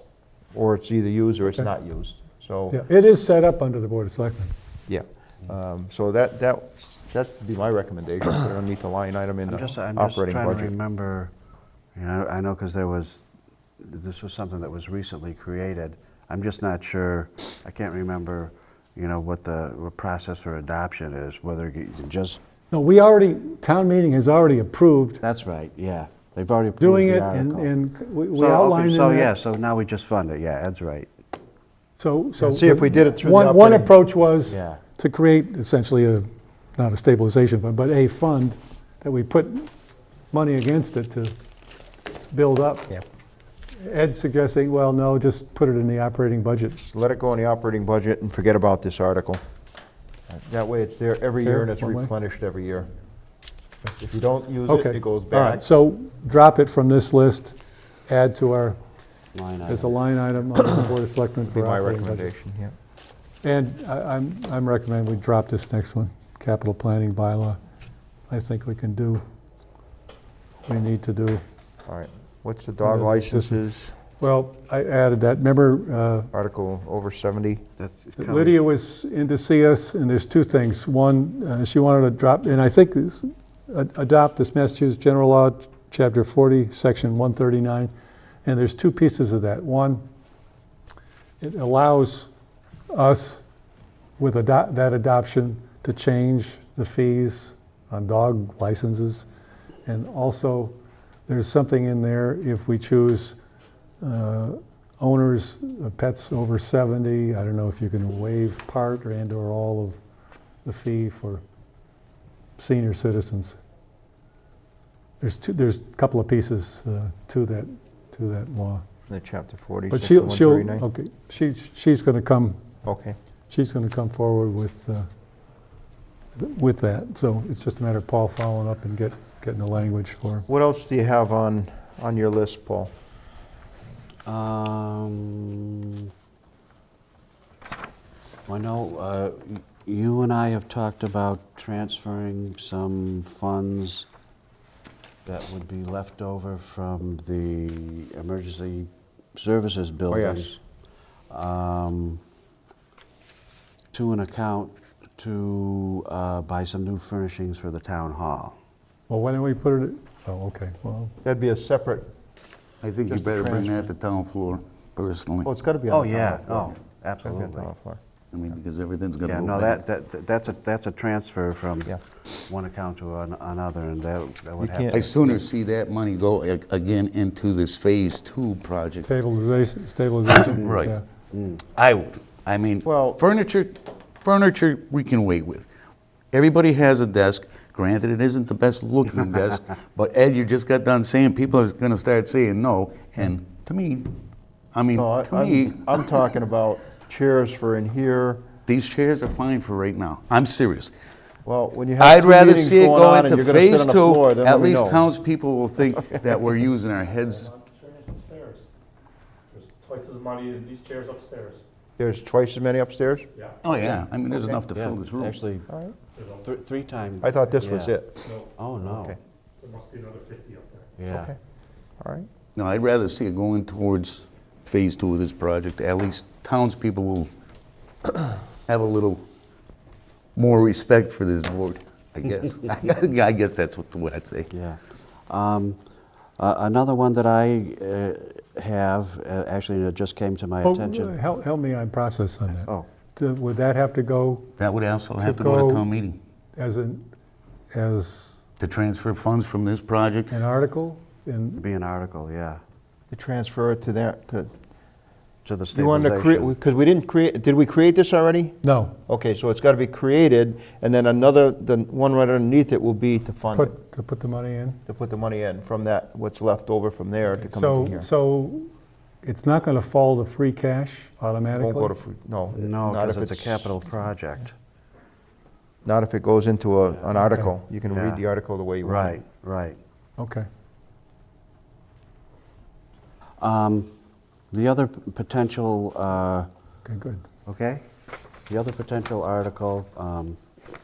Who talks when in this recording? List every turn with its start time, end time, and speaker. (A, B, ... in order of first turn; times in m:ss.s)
0:00.5-0:02.8 A
0:02.7-0:04.5 B
0:04.9-0:10.7 A
0:09.5-0:11.3 C
0:11.9-0:13.2 C
0:13.8-0:22.4 C
0:22.7-0:25.2 B
0:25.2-0:27.7 C
0:26.8-0:29.3 B
0:28.3-0:31.1 C
0:32.0-0:39.7 B
0:32.4-0:33.9 A
0:34.5-0:34.8 C
0:40.3-0:41.3 B
0:42.3-0:43.0 B
0:43.8-0:46.8 B
0:46.8-0:49.4 A
0:50.3-0:52.9 A
0:51.4-0:52.1 B
0:54.0-0:55.6 A
0:54.7-0:57.6 B
0:58.1-0:58.8 B
0:59.3-1:00.0 C
0:59.7-1:02.3 B
1:01.5-1:02.7 A
1:03.4-1:07.6 B
1:08.3-1:09.2 B
1:10.6-1:11.4 B
1:11.9-1:13.9 A
1:12.8-1:13.6 B
1:14.2-1:16.3 B
1:16.3-1:17.6 A
1:17.8-1:18.6 C
1:18.2-1:27.9 B
1:28.4-1:30.0 B
1:31.4-1:32.3 B
1:32.9-1:33.4 B
1:34.2-1:39.2 B
1:39.8-1:40.7 B
1:41.3-1:43.4 B
1:44.0-1:50.0 B
1:50.6-1:51.4 B
1:52.6-1:53.6 B
1:55.2-1:58.8 B
1:59.1-2:00.8 A
1:59.9-2:02.6 B
2:02.8-2:03.2 A
2:03.5-2:05.1 B
2:06.4-2:10.4 B
2:10.5-2:12.9 A
2:14.2-2:16.0 C
2:18.5-2:24.1 C
2:25.2-2:30.6 C
2:30.1-2:30.6 A
2:31.3-2:32.2 C
2:33.9-2:38.6 C
2:39.1-2:41.1 B
2:41.2-2:42.1 A
2:42.8-2:45.5 D
2:43.1-2:43.9 A
2:45.4-2:48.0 A
2:45.9-2:47.7 C
2:48.3-2:49.8 D
2:49.2-2:55.4 C
2:54.6-2:55.0 A
2:54.9-2:59.1 D
2:59.0-3:01.0 B
3:00.3-3:01.0 D
3:01.3-3:01.6 C
3:01.6-3:05.7 D
3:02.8-3:03.2 A
3:06.3-3:14.2 D
3:14.7-3:16.0 D
3:14.9-3:18.4 A
3:18.7-3:20.9 D
3:21.4-3:25.1 A
3:22.0-3:27.5 D
3:28.0-3:28.6 E
3:29.7-3:31.6 B
3:29.9-3:31.4 E
3:32.0-3:33.3 A
3:33.6-3:35.4 D
3:34.3-3:34.6 A
3:34.7-3:35.7 C
3:35.7-3:36.0 A
3:36.4-3:38.0 C
3:37.2-3:39.2 A
3:38.5-3:39.2 C
3:39.6-3:40.8 B
3:41.0-3:41.3 C
3:41.1-3:41.4 A
3:42.0-3:42.3 A
3:42.6-3:47.3 D
3:48.7-3:49.2 D
3:50.4-3:54.5 D
3:54.5-3:55.8 C
3:56.4-4:01.2 C
4:00.6-4:04.5 B
4:04.6-4:06.2 D
4:05.2-4:05.8 B
4:06.6-4:07.0 B
4:07.7-4:08.4 B
4:08.6-4:10.3 D
4:10.3-4:11.6 B
4:11.6-4:12.6 C
4:13.1-4:14.5 A
4:15.4-4:16.5 C
4:15.7-4:18.6 A
4:18.6-4:18.9 B
4:19.1-4:23.7 A
4:23.5-4:24.8 B
4:24.8-4:28.1 A
4:27.4-4:28.7 B
4:29.2-4:31.9 B
4:31.6-4:33.7 A
4:32.5-4:34.5 C
4:35.8-4:39.2 A
4:37.2-4:37.5 B
4:37.9-4:38.2 C
4:38.8-4:39.8 C
4:40.2-4:40.5 B
4:43.4-4:43.9 C
4:44.5-4:46.5 C
4:46.8-4:47.2 B
4:47.4-4:47.8 C
4:48.5-4:50.4 C